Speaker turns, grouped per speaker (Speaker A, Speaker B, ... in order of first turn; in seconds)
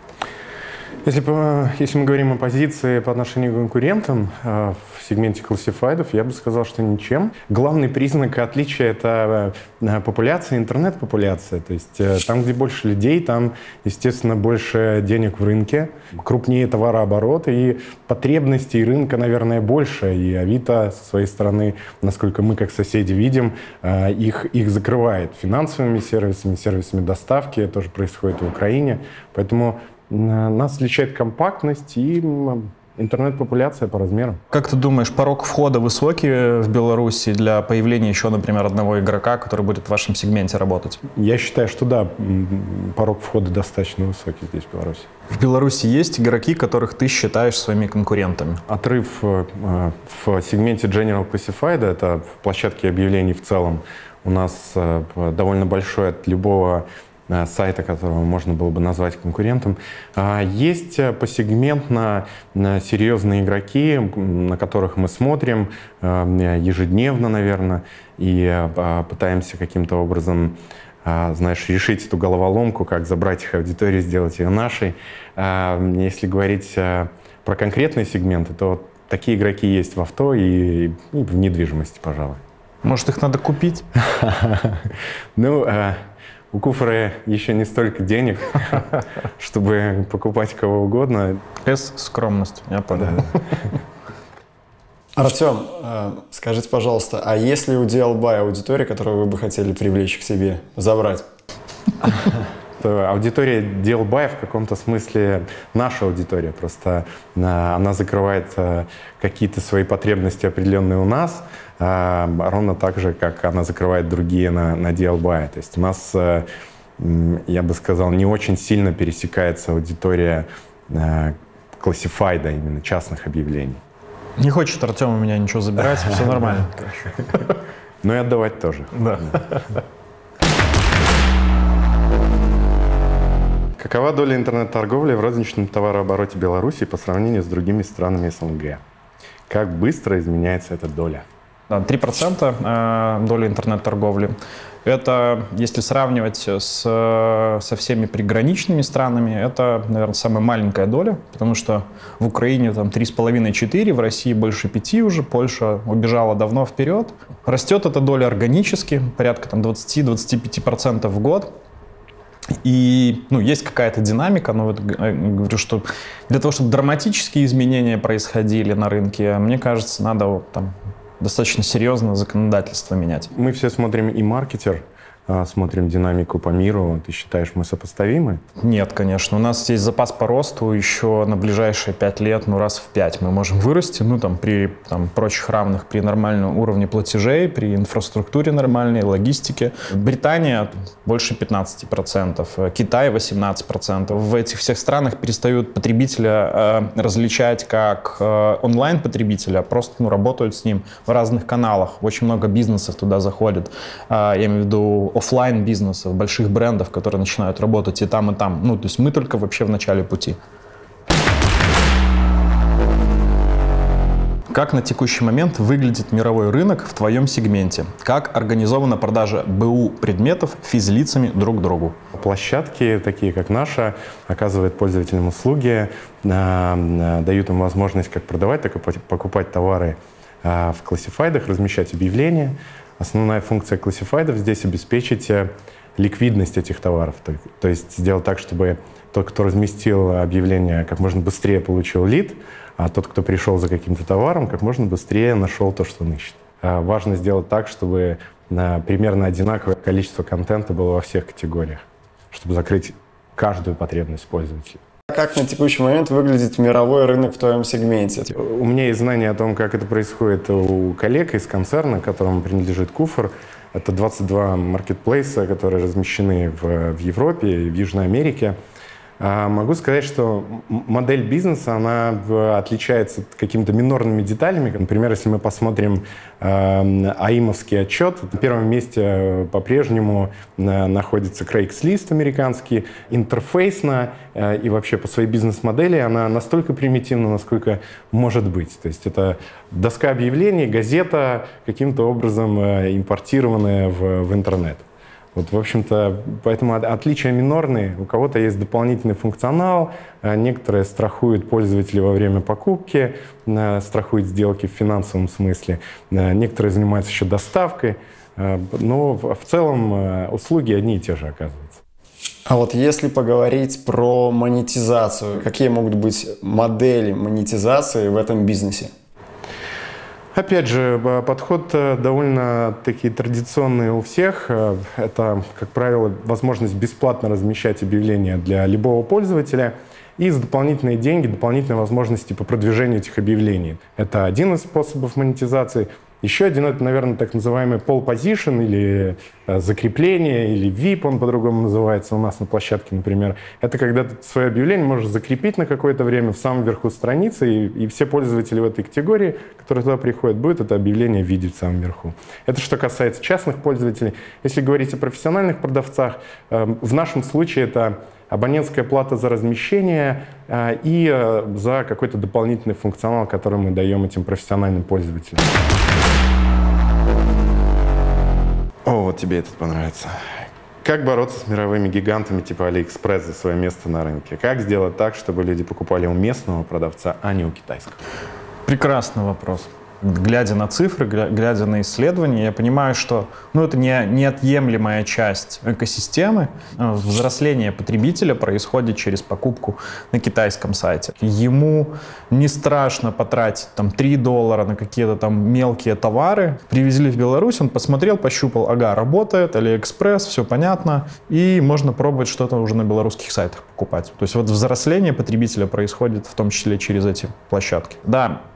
Speaker A: 1.0-34.4, 41.1-45.1, 48.7-82.4, 84.0-86.0, 86.5-91.4, 102.2-116.5, 117.0-123.8, 128.0-129.4, 133.8-138.8, 139.5-141.2, 173.3-178.4, 222.1-254.8, 258.3-268.6, 269.2-294.8, 295.3-311.8, 320.3-365.5, 368.8-378.0
Speaker B: 34.5-41.0, 45.3-48.6, 82.8-83.8, 91.6-93.5, 124.4-127.4, 128.9-129.8, 141.7-161.5, 162.6-173.3, 178.6-210.4, 214.5-222.0, 378.6-408.4
Speaker C: 95.2-101.2, 255.1-258.3, 312.5-318.9